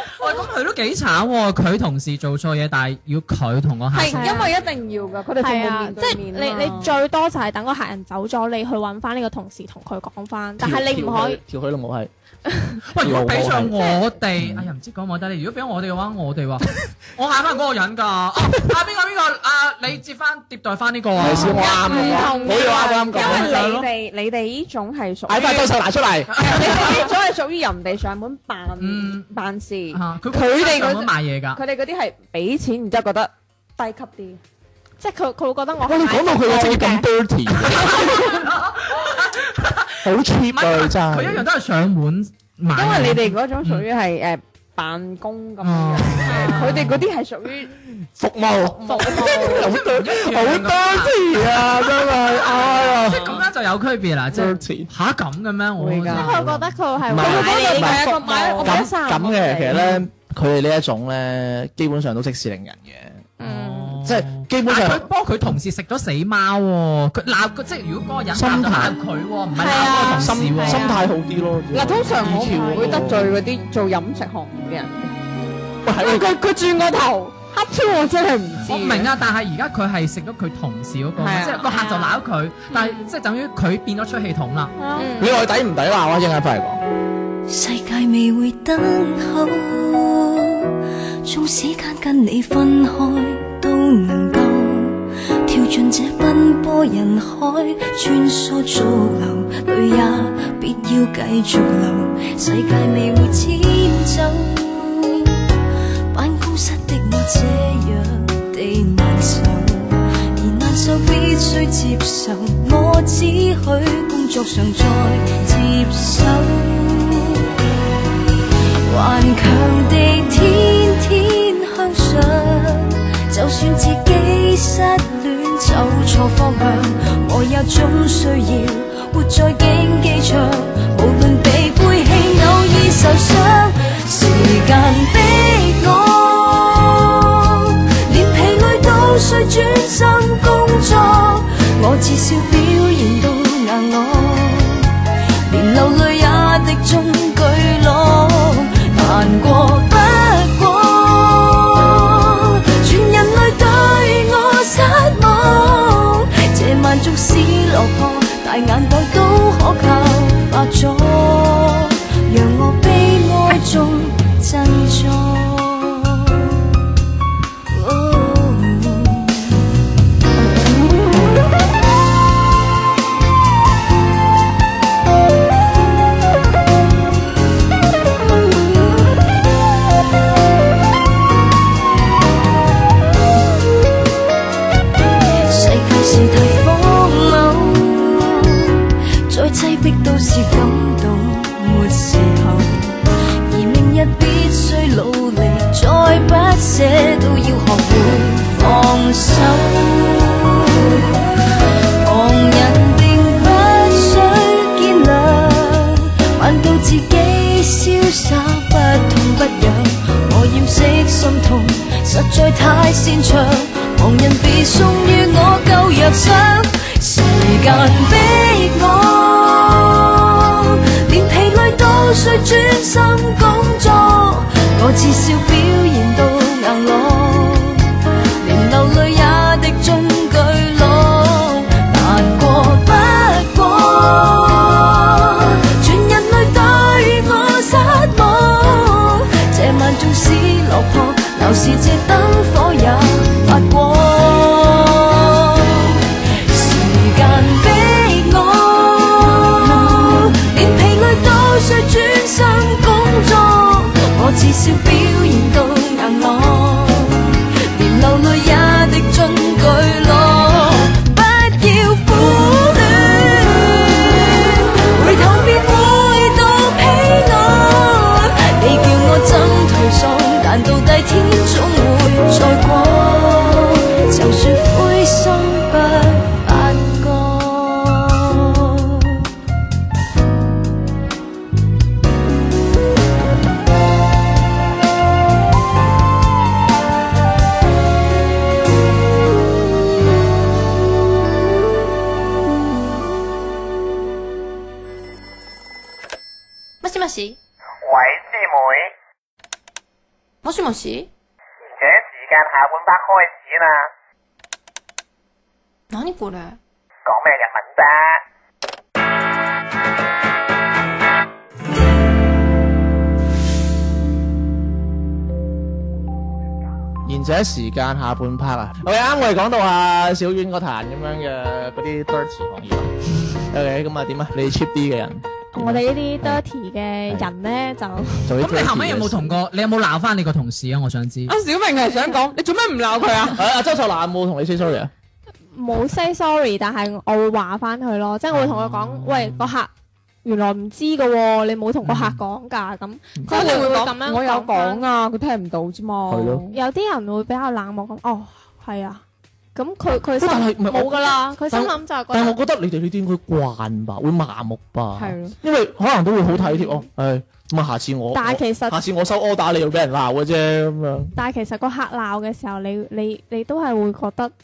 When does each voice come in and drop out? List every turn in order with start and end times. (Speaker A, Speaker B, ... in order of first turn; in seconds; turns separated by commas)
Speaker A: 0.2-4.5, Speaker B: 3.9-7.0, Speaker C: 4.1-4.5, Speaker C: 5.4-11.4, Speaker D: 10.6-12.1, Speaker C: 12.5-12.8, Speaker A: 12.9-21.6, Speaker D: 13.0-13.9, Speaker D: 14.4-14.7, Speaker D: 21.2-23.5, Speaker B: 21.2-25.7, Speaker C: 21.9-22.7, Speaker A: 23.1-23.9, Speaker D: 25.3-26.9, Speaker A: 26.3-27.0, Speaker B: 26.4-34.4, Speaker A: 28.8-29.3, Speaker A: 29.9-31.6, Speaker C: 35.0-37.1, Speaker D: 35.9-38.2, Speaker C: 37.7-38.2, Speaker A: 37.8-43.9, Speaker D: 40.0-41.5, Speaker B: 42.8-47.7, Speaker A: 45.6-47.0, Speaker C: 46.3-46.8, Speaker D: 48.0-53.4, Speaker C: 48.8-49.7, Speaker A: 49.7-51.2, Speaker A: 53.1-56.7, Speaker D: 54.3-54.9, Speaker B: 55.8-56.3, Speaker C: 56.1-58.9, Speaker D: 56.3-58.1, Speaker B: 57.1-60.0, Speaker D: 58.6-63.3, Speaker C: 63.4-64.0, Speaker A: 63.4-71.0, Speaker D: 64.0-65.1, Speaker D: 68.3-69.0, Speaker C: 69.6-71.1, Speaker D: 69.9-73.3, Speaker B: 71.7-75.1, Speaker C: 72.3-73.2, Speaker D: 75.8-76.3, Speaker B: 76.0-79.1, Speaker A: 78.7-84.7, Speaker B: 81.2-81.7, Speaker C: 81.6-82.2, Speaker C: 82.7-83.1, Speaker B: 84.8-85.1, Speaker C: 85.0-85.4, Speaker D: 85.2-86.8, Speaker E: 87.5-90.7, Speaker E: 91.2-105.4, Speaker E: 106.1-117.5, Speaker E: 118.9-144.9, Speaker E: 145.5-166.5, Speaker E: 167.7-169.6, Speaker E: 185.4-201.3, Speaker E: 202.0-279.2, Speaker F: 296.8-297.4, Speaker G: 297.9-298.8, Speaker F: 300.4-301.1, Speaker G: 301.8-303.7, Speaker F: 305.9-306.6, Speaker D: 307.1-307.6, Speaker G: 307.1-307.8, Speaker D: 317.1-322.9, Speaker A: 323.1-323.5, Speaker D: 323.5-326.4, Speaker C: 325.5-328.3, Speaker D: 328.2-329.4, Speaker A: 328.4-331.3, Speaker B: 331.3-333.4, Speaker D: 333.4-334.9, Speaker C: 335.6-339.7, Speaker A: 338.3-339.6, Speaker C: 340.2-344.9, Speaker A: 341.9-342.2, Speaker D: 343.2-343.6, Speaker B: 343.3-346.6, Speaker D: 346.1-346.4, Speaker C: 346.5-349.0, Speaker C: 349.6-352.4, Speaker D: 350.2-361.1, Speaker B: 355.0-355.3, Speaker C: 356.3-356.8, Speaker C: 358.1-358.8, Speaker C: 361.1-364.3